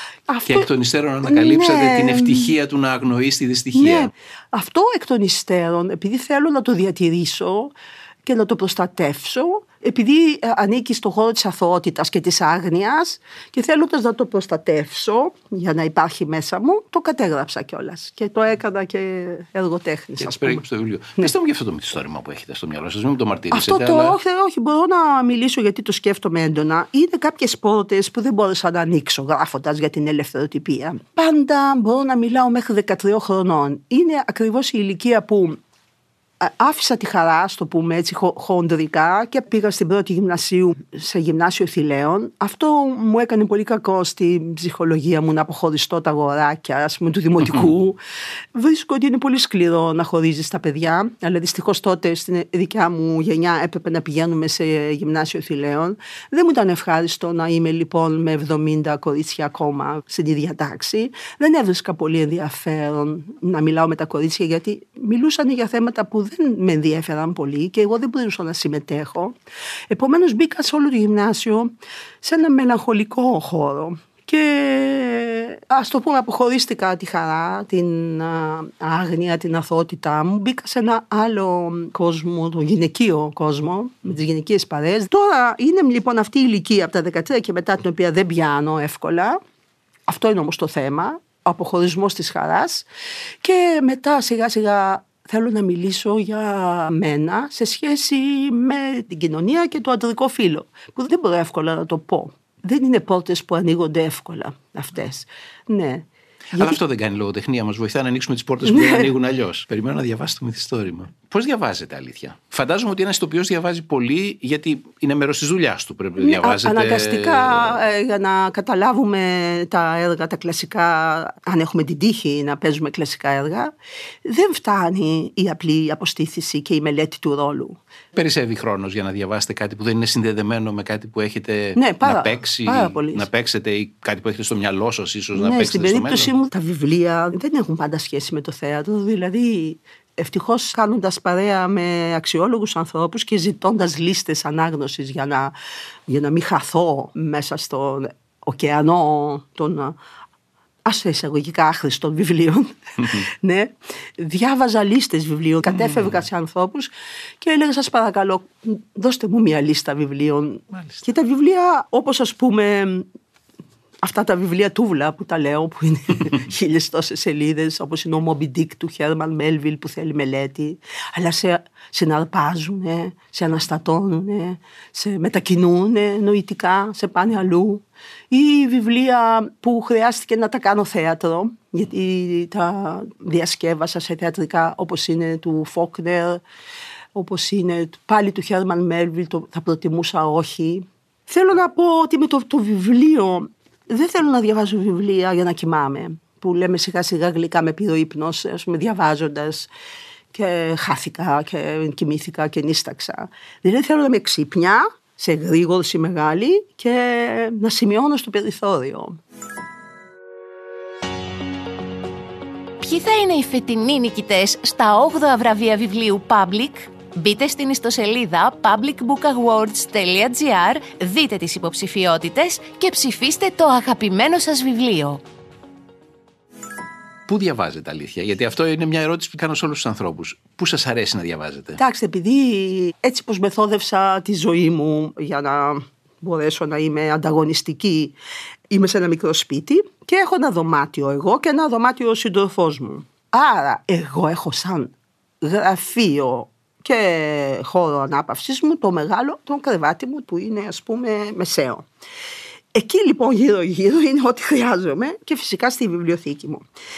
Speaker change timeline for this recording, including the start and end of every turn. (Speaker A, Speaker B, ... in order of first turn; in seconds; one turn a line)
Speaker A: 0.3-0.7
Speaker B: 0.5-4.1
Speaker A: 1.2-2.5
Speaker A: 3.7-7.7
Speaker A: 8.2-20.6
Speaker B: 20.2-24.2
Speaker A: 23.5-35.6
Speaker A: 36.4-48.0
Speaker A: 48.5-69.3
Speaker A: 69.9-89.4
Speaker A: 90.1-92.8
Speaker A: 93.4-106.8
Speaker B: 106.5-117.8
Speaker A: 108.7-109.0
Speaker A: 116.2-123.7
Speaker A: 124.2-127.8
Speaker B: 128.1-136.3
Speaker A: 131.8-133.2
Speaker A: 135.3-145.5
Speaker A: 146.1-149.9
Speaker A: 150.8-163.1
Speaker A: 164.0-186.4
Speaker A: 187.1-199.7
Speaker A: 200.3-209.2
Speaker C: 212.8-225.2
Speaker B: 227.3-231.8
Speaker A: 231.8-238.1
Speaker A: 238.7-251.8
Speaker A: 252.7-256.6